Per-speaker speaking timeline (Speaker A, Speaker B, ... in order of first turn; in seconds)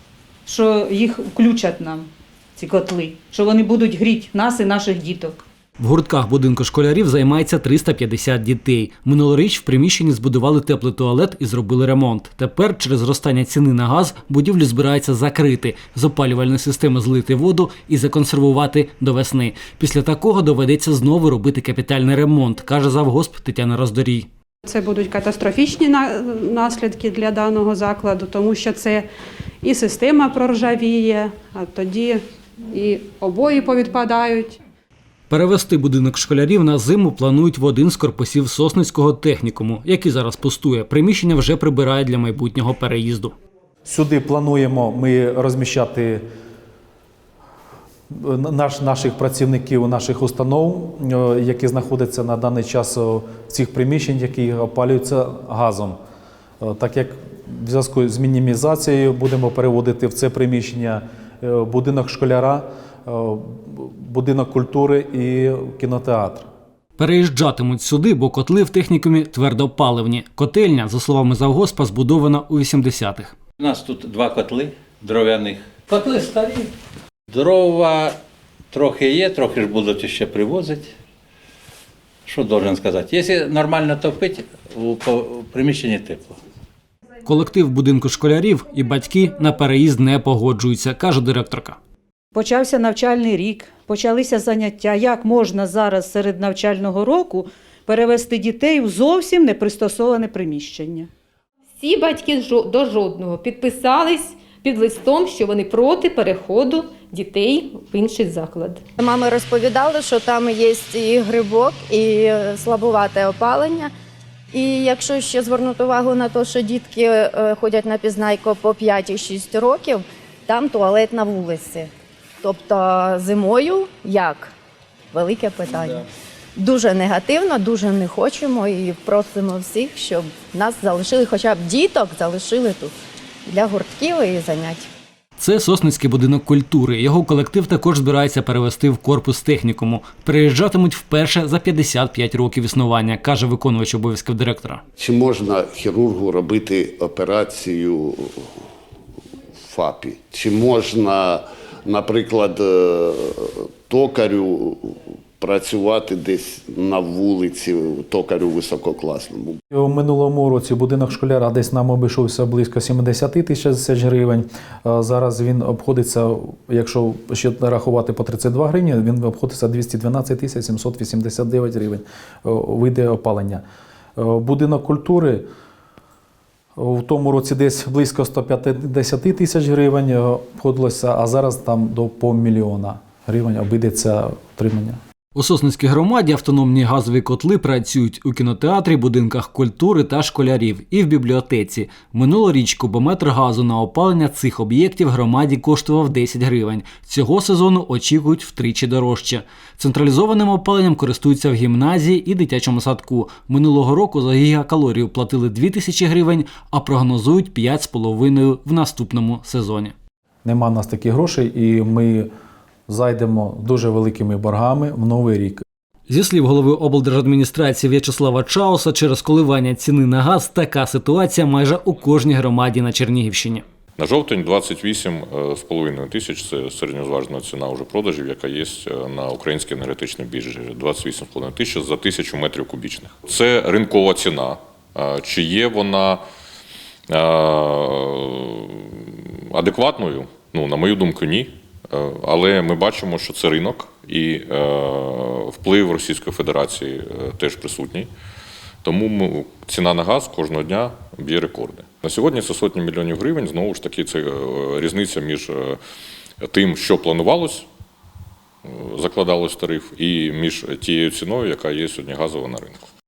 Speaker A: 0.5-5.4, 92.3-101.1
Speaker B: 5.8-24.3, 35.3-43.3, 67.0-73.3, 87.2-91.8, 135.4-144.8, 185.3-209.9, 216.1-223.6
Speaker C: 24.6-29.0, 29.6-34.6
Speaker D: 43.9-46.2, 48.1-56.0, 56.6-66.5, 159.7-173.6, 174.2-175.4, 176.8-185.0, 210.4-212.3, 212.9-215.6
Speaker E: 73.6-76.7, 77.3-78.2, 78.7-80.9, 82.3-86.4
Speaker F: 101.8-108.8
Speaker G: 109.0-113.9, 114.5-121.9, 122.4-124.5, 125.1-126.0, 126.5-132.9, 133.4-134.9
Speaker H: 145.0-148.6, 149.6-159.6
Speaker I: 224.0-236.2, 237.1-248.1, 248.8-255.8, 256.4-257.7, 258.6-262.9